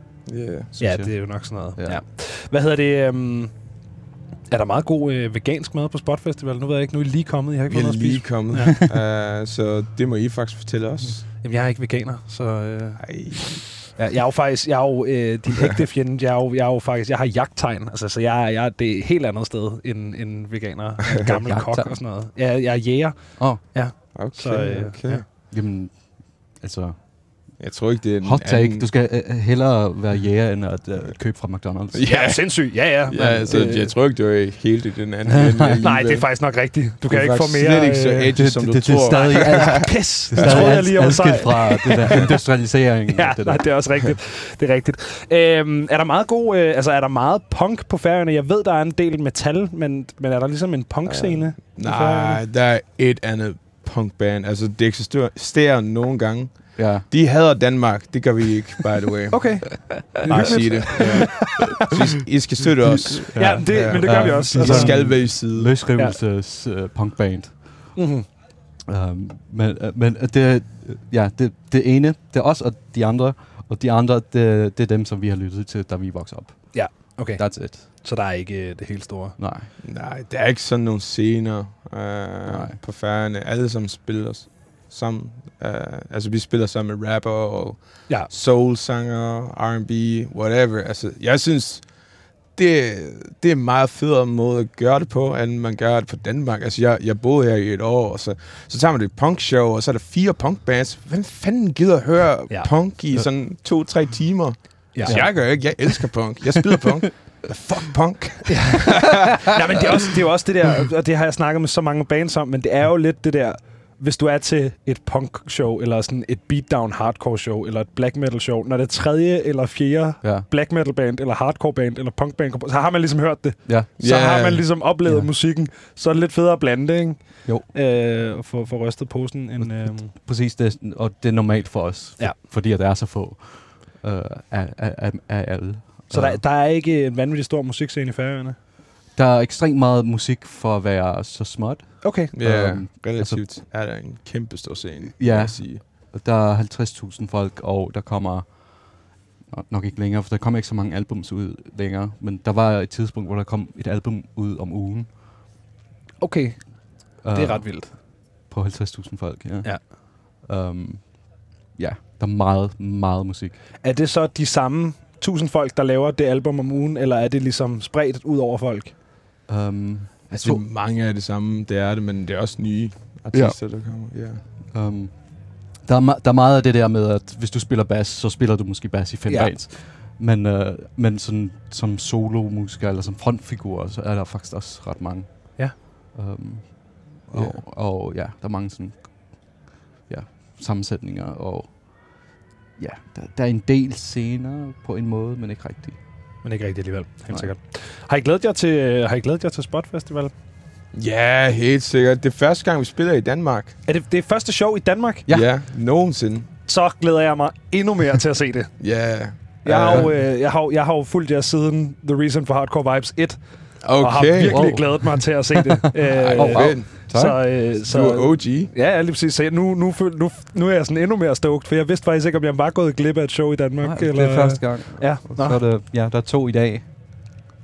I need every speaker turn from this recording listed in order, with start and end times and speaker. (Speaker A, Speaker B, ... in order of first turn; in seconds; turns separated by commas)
Speaker A: 0.3-0.7, Speaker B: 0.7-2.0, Speaker C: 0.8-3.5, Speaker C: 4.5-8.7, Speaker A: 7.7-11.2, Speaker C: 11.4-25.2, Speaker A: 13.0-13.7, Speaker B: 21.3-22.0, Speaker A: 24.1-25.2, Speaker B: 25.5-27.0, Speaker A: 27.6-28.9, Speaker B: 28.2-32.1, Speaker A: 31.9-36.3, Speaker C: 32.0-34.0, Speaker B: 35.3-35.8, Speaker C: 35.8-38.4, Speaker A: 37.0-40.9, Speaker B: 38.4-43.7, Speaker C: 38.9-42.4, Speaker C: 43.1-52.4, Speaker A: 51.1-65.8, Speaker B: 56.8-57.1, Speaker C: 59.3-61.9, Speaker B: 60.3-61.5, Speaker B: 62.8-68.0, Speaker C: 63.4-65.3, Speaker C: 68.0-68.3, Speaker B: 68.9-77.9, Speaker C: 76.7-79.4, Speaker B: 79.4-79.7, Speaker A: 79.8-91.9, Speaker B: 82.5-82.8, Speaker A: 92.5-109.6, Speaker C: 105.0-105.4, Speaker B: 105.0-105.7, Speaker C: 108.5-130.1, Speaker B: 120.2-120.5, Speaker A: 124.0-124.7, Speaker B: 125.0-125.3, Speaker B: 129.6-136.4, Speaker C: 136.1-138.6, Speaker B: 139.2-143.4, Speaker C: 142.0-142.3, Speaker A: 142.3-145.8, Speaker B: 145.2-155.1, Speaker C: 156.2-157.9, Speaker B: 157.2-163.6, Speaker C: 163.8-168.9, Speaker B: 169.5-170.6, Speaker A: 170.3-174.4, Speaker B: 173.3-173.6, Speaker B: 174.7-196.0, Speaker C: 179.3-179.5, Speaker A: 187.3-187.6, Speaker C: 196.4-200.3, Speaker A: 200.9-203.8, Speaker C: 203.9-205.3, Speaker A: 205.3-206.5, Speaker C: 206.7-208.8, Speaker A: 208.8-210.1, Speaker C: 209.6-225.6, Speaker B: 209.8-210.1, Speaker A: 213.8-214.8, Speaker B: 214.4-215.6, Speaker B: 216.1-217.4, Speaker A: 216.1-218.7, Speaker B: 223.8-227.3